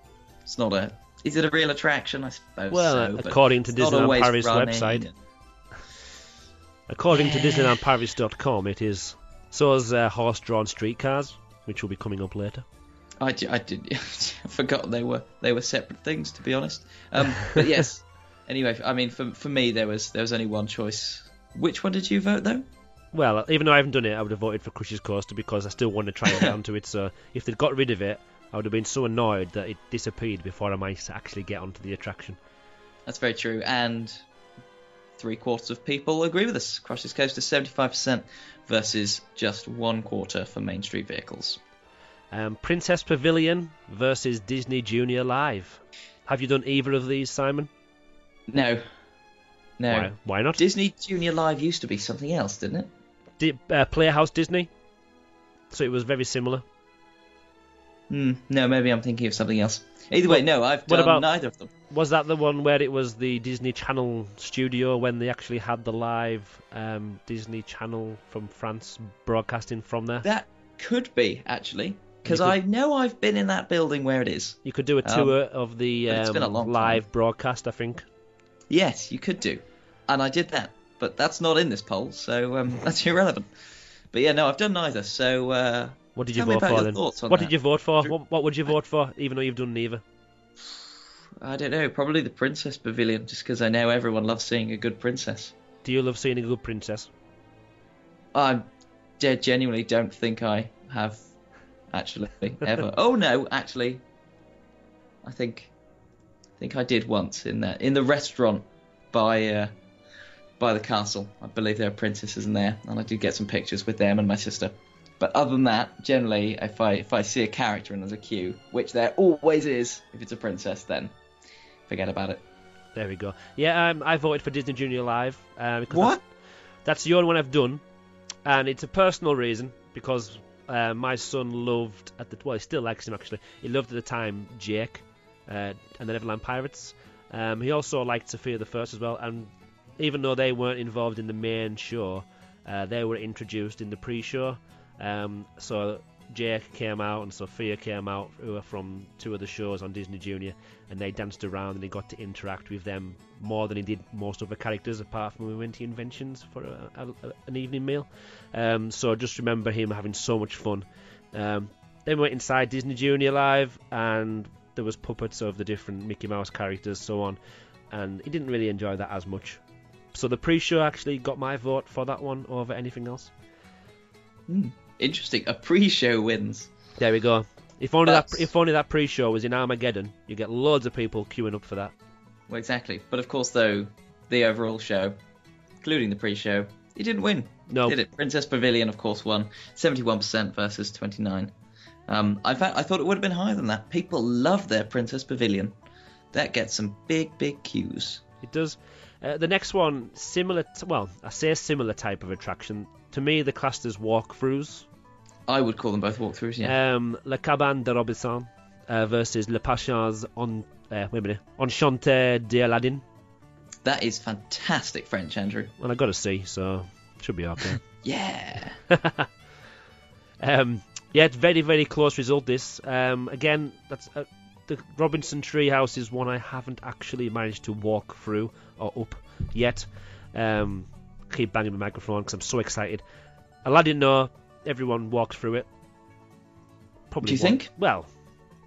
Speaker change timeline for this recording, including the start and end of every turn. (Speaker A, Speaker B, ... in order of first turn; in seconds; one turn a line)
Speaker A: 0.4-5.1
Speaker B: 2.7-5.1
Speaker B: 6.9-12.7
Speaker A: 7.1-7.8
Speaker A: 13.2-22.6
Speaker B: 23.1-32.4
Speaker A: 33.0-34.2
Speaker A: 35.2-41.6
Speaker B: 42.3-47.7
Speaker A: 48.5-48.8
Speaker A: 49.8-52.9
Speaker B: 49.9-50.6
Speaker B: 53.4-54.7
Speaker B: 55.7-56.6
Speaker A: 58.1-61.7
Speaker B: 60.3-61.2
Speaker B: 61.9-70.3
Speaker A: 70.2-75.3
Speaker B: 72.2-72.5
Speaker B: 74.6-78.0
Speaker A: 76.1-77.0
Speaker A: 78.7-83.5
Speaker A: 84.1-88.1
Speaker B: 86.2-90.0
Speaker A: 91.4-95.5
Speaker B: 95.8-97.1
Speaker A: 98.3-98.6
Speaker A: 99.2-101.2
Speaker A: 101.9-104.0
Speaker A: 105.2-105.7
Speaker A: 106.6-109.7
Speaker A: 110.6-121.1
Speaker A: 121.9-122.4
Speaker B: 122.9-126.2
Speaker A: 125.9-126.2
Speaker B: 126.8-127.8
Speaker B: 128.4-167.4
Speaker B: 167.9-169.6
Speaker B: 170.1-173.3
Speaker A: 174.5-176.7
Speaker B: 177.0-181.9
Speaker A: 178.1-178.5
Speaker A: 182.5-185.2
Speaker A: 185.8-191.5
Speaker B: 187.7-188.0
Speaker A: 192.1-195.8
Speaker A: 196.3-198.2
Speaker B: 198.4-204.9
Speaker A: 205.5-206.7
Speaker B: 206.6-213.0
Speaker A: 213.8-215.7
Speaker B: 215.8-217.8
Speaker A: 218.0-218.8
Speaker B: 218.9-219.3
Speaker B: 220.4-233.0
Speaker B: 233.6-235.7
Speaker B: 237.1-238.1
Speaker A: 237.2-237.7